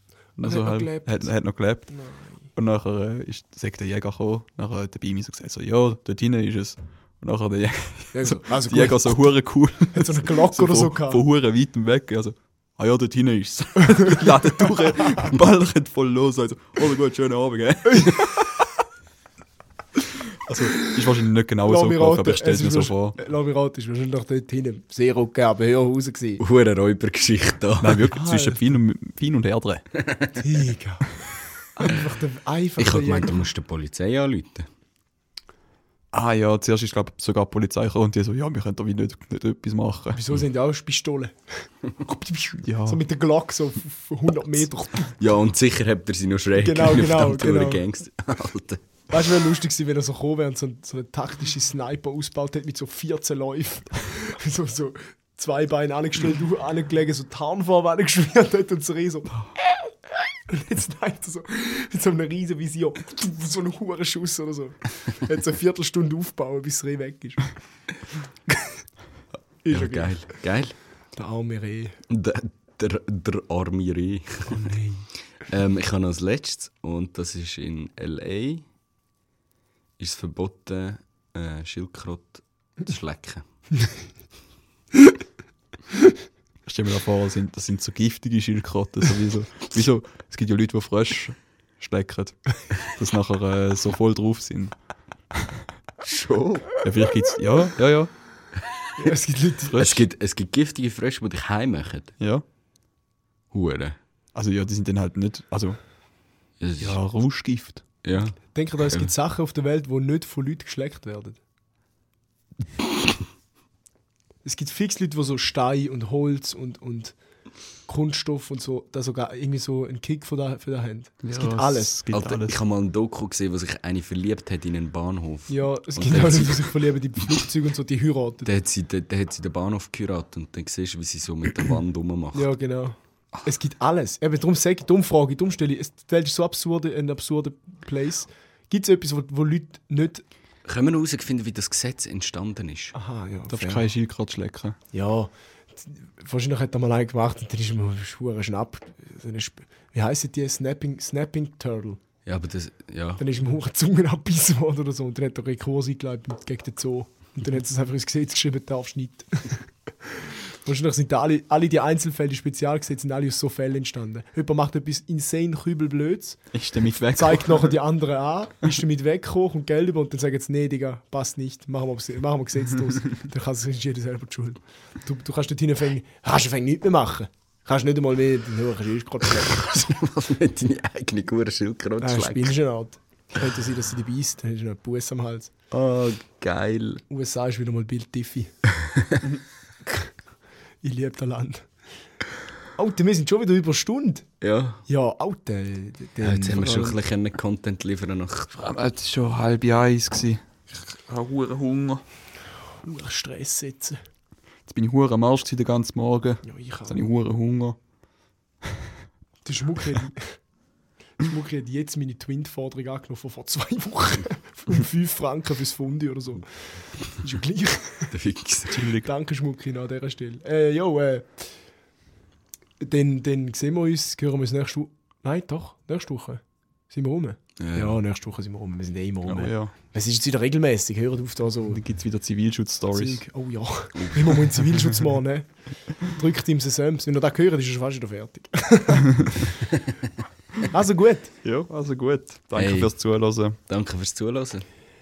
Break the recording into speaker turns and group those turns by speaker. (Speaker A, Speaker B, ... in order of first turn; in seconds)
Speaker A: 0.4-1.9, 2.5-18.7, 20.4-23.2, 27.8-29.9, 36.1-40.2, 42.6-43.0, 74.5-75.0, 86.7-94.8, 95.3-95.6, 96.8-98.1, 99.7-100.1, 102.2-102.4, 104.3-105.8, 106.8-107.8, 121.2-122.6, 143.5-144.8, 166.5-167.8, 196.6-196.9, 198.5-202.0, 204.7-207.8, 218.7-219.1, 229.3-229.7, 231.7-233.2, 241.4-243.6
Speaker B: 0.4-1.3, 1.9-2.5, 8.1-9.2, 9.9-11.2, 21.6-26.4, 28.1-28.8, 30.4-31.1, 31.8-33.4, 40.1-45.1, 46.6-47.8, 49.1-59.9, 60.5-67.5, 69.6-70.3, 71.1-72.0, 99.0-99.8, 108.5-111.4, 114.4-117.2, 117.9-122.0, 125.5-128.5, 132.3-140.2, 142.9-143.9, 144.9-152.0, 153.2-166.4, 167.2-179.8, 182.0-185.5, 187.1-188.5, 190.8-191.7, 192.8-194.3, 194.9-196.8, 202.8-204.0, 206.4-207.1, 209.4-210.4, 211.2-218.2, 219.0-221.5, 222.8-231.8, 232.9-239.7, 240.7-241.3
Speaker C: 26.4-28.1, 30.0-30.3, 32.8-34.7, 45.2-48.8, 69.7-70.8, 72.1-74.8, 75.4-78.6, 80.0-83.5, 96.0-96.7, 99.8-102.2, 103.5-104.0, 106.6-107.0, 108.0-109.1, 122.1-127.2, 128.5-132.5, 140.7-142.9, 152.3-153.2, 179.5-182.6, 185.7-187.0, 188.8-189.2, 194.4-194.8, 196.2-198.6, 218.1-218.8, 227.6-228.0, 234.0-234.4, 242.6-242.9, 243.7-244.7